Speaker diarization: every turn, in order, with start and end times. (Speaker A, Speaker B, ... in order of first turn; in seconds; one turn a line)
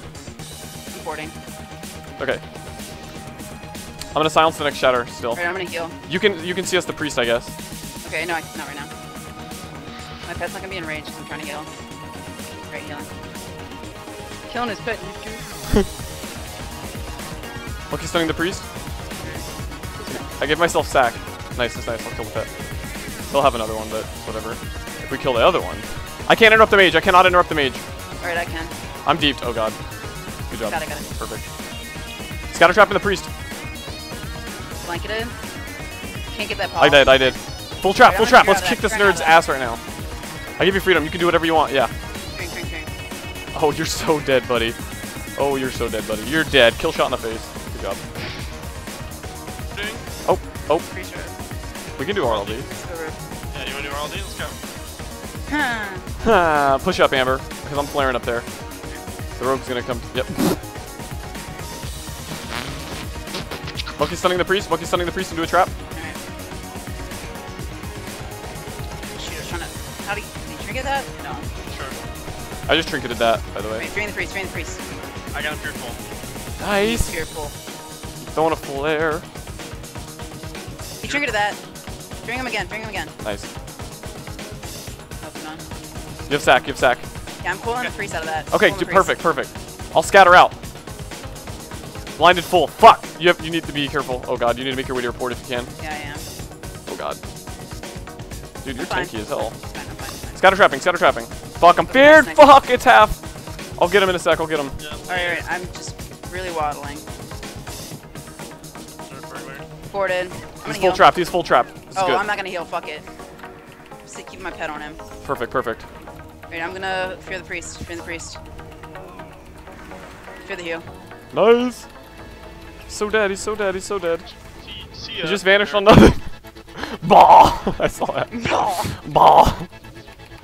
Speaker A: 0.9-1.3
Speaker B: 4.1-7.6
Speaker A: 5.3-6.0
Speaker A: 8.0-8.9
Speaker A: 10.2-11.7
Speaker A: 12.7-13.1
Speaker A: 14.5-15.4
Speaker B: 17.9-18.7
Speaker A: 19.2-20.2
Speaker B: 20.1-22.5
Speaker B: 23.3-27.8
Speaker A: 28.2-28.7
Speaker B: 29.1-29.8
Speaker B: 30.5-31.5
Speaker A: 30.6-31.1
Speaker B: 32.5-33.3
Speaker A: 34.8-35.4
Speaker A: 36.3-37.4
Speaker B: 36.8-39.8
Speaker A: 38.0-39.4
Speaker B: 40.6-41.9
Speaker A: 42.3-42.9
Speaker B: 43.5-44.8
Speaker B: 45.3-48.0
Speaker C: 49.7-50.0
Speaker B: 50.2-50.9
Speaker A: 50.9-51.3
Speaker B: 52.0-52.7
Speaker C: 52.2-52.6
Speaker A: 52.7-53.2
Speaker C: 53.5-54.6
Speaker A: 55.5-56.1
Speaker B: 56.2-58.5
Speaker B: 59.4-60.6
Speaker B: 64.0-65.7
Speaker A: 65.9-66.2
Speaker A: 69.2-71.5
Speaker C: 71.6-72.0
Speaker B: 72.7-73.9
Speaker A: 73.8-74.8
Speaker C: 75.3-76.0
Speaker B: 76.6-77.1
Speaker A: 76.8-77.5
Speaker B: 78.2-79.2
Speaker A: 81.0-81.6
Speaker A: 82.2-83.2
Speaker B: 83.2-83.5
Speaker A: 85.2-85.6
Speaker B: 86.3-87.1
Speaker A: 87.4-89.2
Speaker B: 88.5-90.6
Speaker B: 92.2-95.7
Speaker A: 95.8-96.2
Speaker B: 96.9-97.2
Speaker B: 98.6-99.6
Speaker A: 98.7-100.4
Speaker B: 100.3-103.2
Speaker A: 101.8-102.6
Speaker B: 103.8-104.8
Speaker C: 104.8-105.4
Speaker A: 105.1-107.0
Speaker C: 109.1-109.7
Speaker A: 109.9-111.1
Speaker B: 110.6-112.2
Speaker A: 111.9-113.0
Speaker A: 114.0-115.0
Speaker B: 115.2-115.9
Speaker A: 116.5-118.4
Speaker A: 120.4-120.9
Speaker B: 121.3-121.9
Speaker B: 122.9-124.3
Speaker C: 124.6-125.9
Speaker B: 125.2-129.7
Speaker A: 128.3-128.9